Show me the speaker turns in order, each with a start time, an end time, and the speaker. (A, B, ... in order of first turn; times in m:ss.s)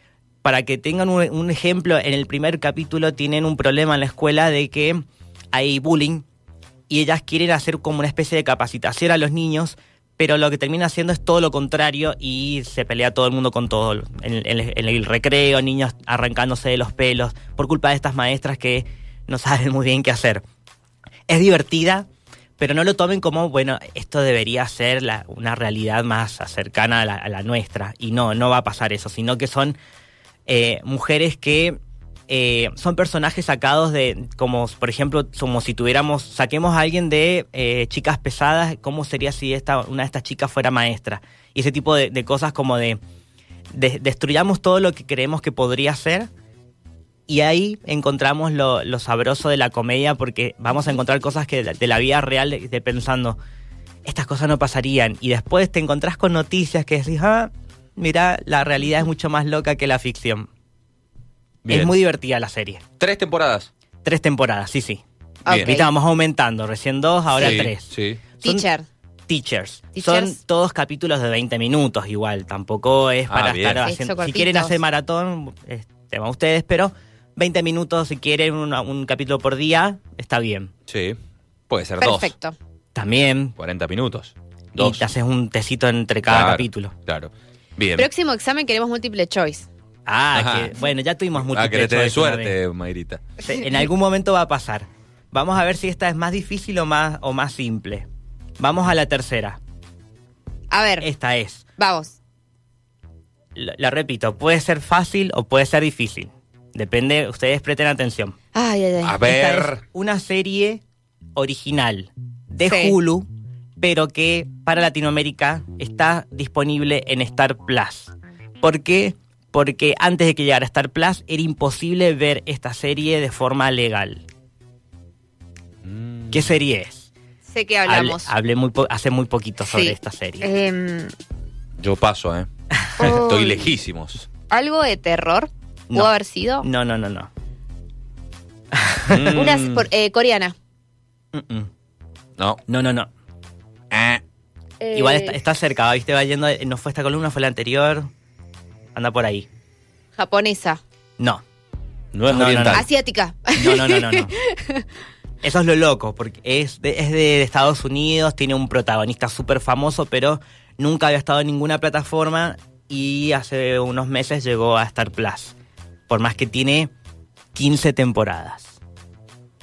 0:00.4-0:06.3 A
0:06.9-0:20.4 A
0:21.3-0:29.8 A
0:30.5-0:43.0 A
0:43.7-0:46.3 A
0:47.3-0:53.4 A
0:54.0-1:00.5 A
1:01.6-1:01.9 B
1:01.7-1:02.8 A
1:03.0-1:03.7 B
1:04.0-1:05.0 A
1:05.4-1:05.9 C
1:05.5-1:05.7 B
1:05.6-1:07.9 A
1:07.4-1:08.2 B
1:07.4-1:07.7 C
1:08.4-1:08.9 C
1:09.3-1:20.7 A
1:10.0-1:10.4 C
1:13.3-1:13.9 B
1:13.8-1:14.8 C
1:20.9-1:21.2 B
1:21.7-1:22.3 B
1:22.0-1:22.6 C
1:23.0-1:23.5 A
1:23.6-1:25.1 B
1:24.8-1:26.9 A
1:26.3-1:28.1 B
1:28.0-1:29.7 C
1:30.1-1:32.6 A
1:30.3-1:30.8 B
1:31.4-1:33.2 B
1:33.4-1:38.1 A
1:38.6-1:39.6 A
1:40.7-1:41.1 C
1:41.0-1:41.6 A
1:41.8-1:42.2 C
1:43.6-1:48.4 A
1:48.5-1:49.2 C
1:49.0-1:49.8 B
1:49.2-1:50.8 A
1:51.4-1:53.3 A
1:52.6-1:53.0 C
1:53.8-2:04.2 A
2:05.8-2:06.5 B
2:06.3-2:07.1 A
2:07.5-2:08.3 C
2:07.9-2:10.5 A
2:09.6-2:11.1 C
2:11.8-2:12.5 B
2:13.0-2:13.7 C
2:13.0-2:14.3 B
2:14.5-2:16.7 C
2:16.6-2:17.3 A
2:18.7-2:19.4 A
2:19.1-2:19.9 B
2:19.3-2:20.6 C
2:21.3-2:21.7 A
2:22.7-2:23.1 A
2:23.9-2:24.2 B
2:24.8-2:25.4 C
2:24.9-2:28.1 A
2:29.0-2:29.5 A
2:30.2-2:30.8 C
2:32.1-2:32.8 B
2:32.3-2:32.9 A
2:32.7-2:34.8 C
2:33.5-2:34.3 A
2:35.4-2:45.6 A
2:46.1-2:46.9 A
2:47.6-2:48.8 A